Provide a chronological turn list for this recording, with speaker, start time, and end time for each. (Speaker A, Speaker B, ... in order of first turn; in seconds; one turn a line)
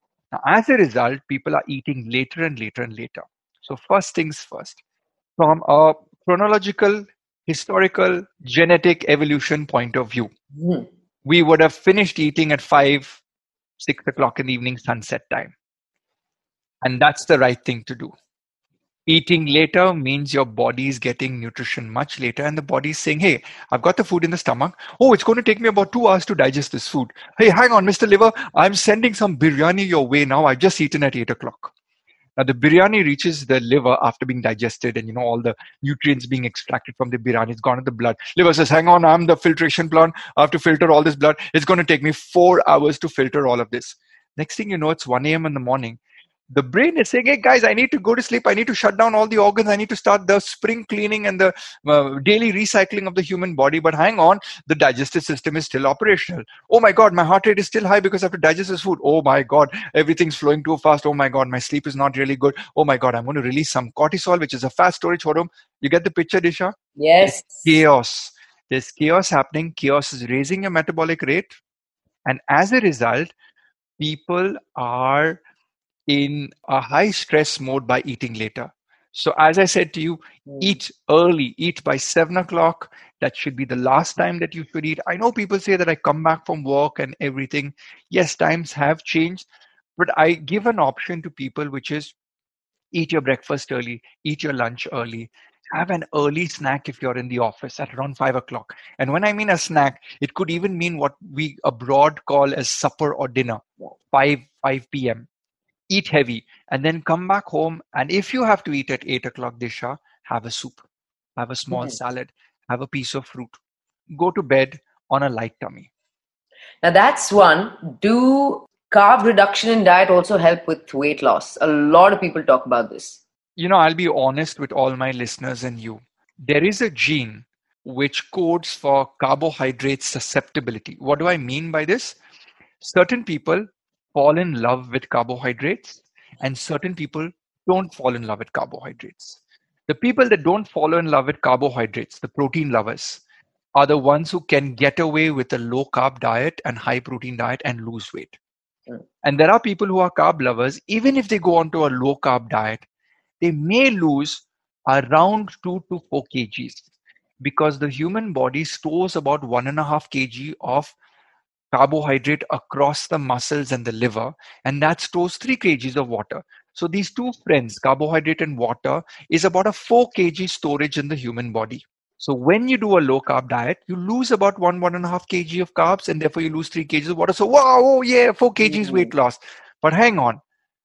Speaker A: 0.3-4.8
Speaker A: 5.4-10.3
Speaker B: 10.6-10.9
Speaker A: 11.2-13.2
Speaker A: 13.8-15.5
Speaker A: 16.8-18.1
Speaker A: 19.1-31.7
Speaker A: 32.4-46.0
Speaker A: 46.5-71.6
Speaker B: 67.0-67.7
Speaker A: 72.2-73.3
Speaker A: 74.0-75.4
Speaker A: 76.1-89.5
Speaker B: 80.5-80.8
Speaker A: 90.0-92.1
Speaker A: 92.9-105.3
Speaker A: 105.9-110.8
Speaker A: 111.4-113.6
Speaker A: 114.1-115.9
Speaker B: 116.8-123.2
Speaker A: 123.6-132.2
Speaker A: 132.8-143.2
Speaker A: 143.7-148.3
Speaker A: 149.2-152.8
Speaker A: 153.4-156.9
Speaker A: 157.4-160.9
Speaker A: 161.7-180.4
Speaker B: 178.6-179.1